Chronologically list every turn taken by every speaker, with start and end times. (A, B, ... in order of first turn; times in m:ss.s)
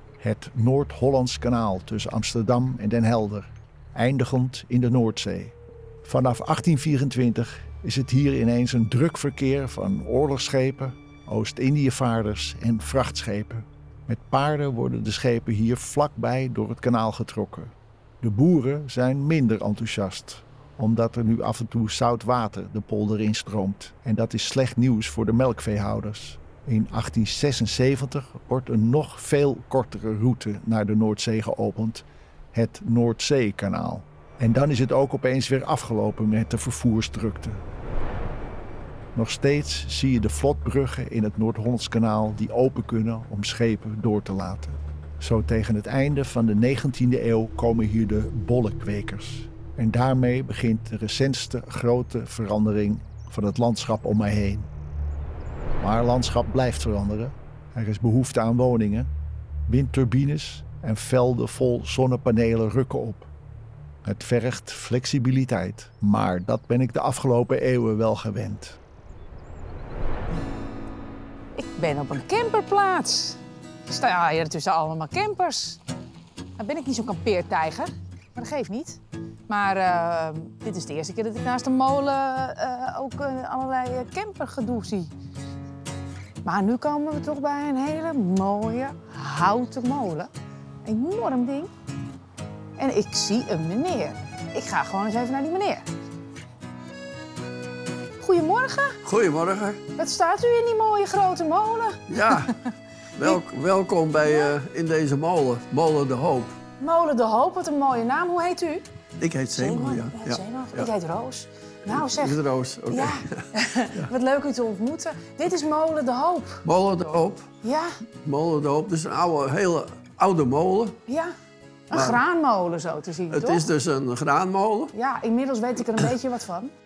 0:00.2-0:37.6 A
0:39.2-0:54.7 A
0:55.8-0:59.1 A
0:59.7-1:03.3 A
1:04.0-1:08.8 A
1:11.6-1:15.8 B
1:16.6-1:25.1 B
1:26.4-1:30.3 B
1:30.8-1:31.7 B
1:32.8-1:35.9 B
1:38.2-1:39.0 B
1:39.0-1:39.8 C
1:40.0-1:42.6 B
1:42.1-1:42.6 C
1:43.2-1:46.6 C
1:44.3-1:44.5 B
1:46.8-1:48.9 B
1:49.2-1:50.9 C
1:49.6-1:52.4 B
1:51.8-1:54.1 C
1:52.9-1:56.6 B
1:56.6-1:57.5 C
1:57.6-1:57.9 B
1:58.2-2:01.0 C
2:01.1-2:01.4 B
2:01.9-2:03.7 B
2:01.9-2:02.2 C
2:03.3-2:04.9 C
2:04.9-2:06.7 B